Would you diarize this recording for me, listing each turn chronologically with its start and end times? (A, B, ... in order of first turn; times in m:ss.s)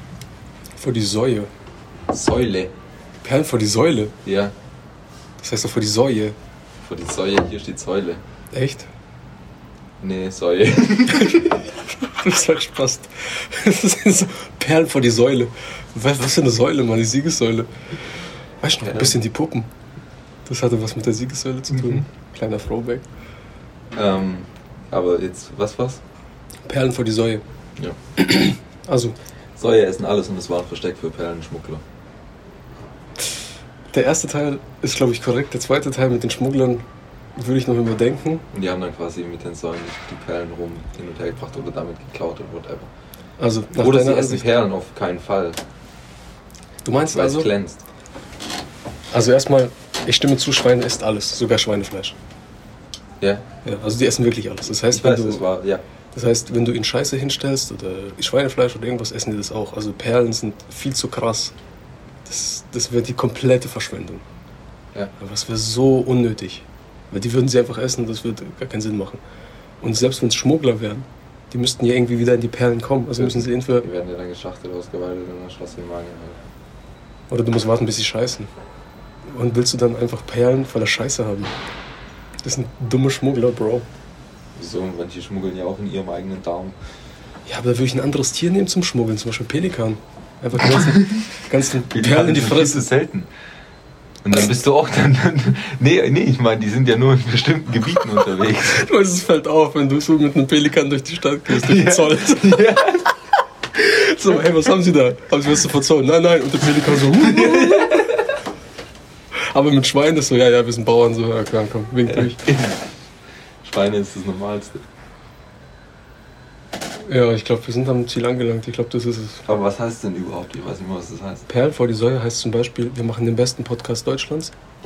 0:00.8-0:01.5 A
0:02.1-0:02.7 B
0:03.2-0:04.1 A
0:04.2-0:04.5 B
0:05.4-0:06.4 A
0:06.8-0:08.2 B
0:08.5-0:08.9 A
0:10.0-0:11.6 B
0:11.2-0:17.7 A
0:18.6-0:19.7 A
0:18.8-0:19.2 B
0:20.4-0:23.0 A
0:23.9-0:26.0 B
0:26.6-0:27.4 A
0:28.2-0:29.2 A
0:29.6-0:31.8 B
0:33.9-0:36.8 A
0:37.4-0:38.4 A
0:38.5-0:42.9 B
0:43.4-0:44.4 A
0:43.8-0:45.6 B
0:46.8-0:47.5 A
0:47.1-0:47.8 B
0:49.1-0:52.2 A
0:53.6-0:55.4 A
0:54.9-0:55.8 B
0:56.1-1:01.5 A
1:02.2-1:04.2 A
1:05.2-1:09.2 A
1:09.8-1:13.8 A
1:13.2-1:16.4 B
1:17.3-1:18.5 A
1:19.3-1:21.6 A
1:22.4-1:23.9 A
1:24.6-1:26.8 B
1:27.5-1:32.8 A
1:30.7-1:31.3 B
1:31.9-1:33.3 B
1:34.2-1:38.8 B
1:38.6-1:42.7 A
1:41.5-1:43.1 B
1:43.7-1:48.1 A
1:47.3-1:48.2 B
1:49.5-1:52.4 A
1:52.1-1:52.8 B
1:53.6-1:54.8 B
1:57.1-1:59.4 A
1:59.4-2:01.5 B
2:01.5-2:04.5 A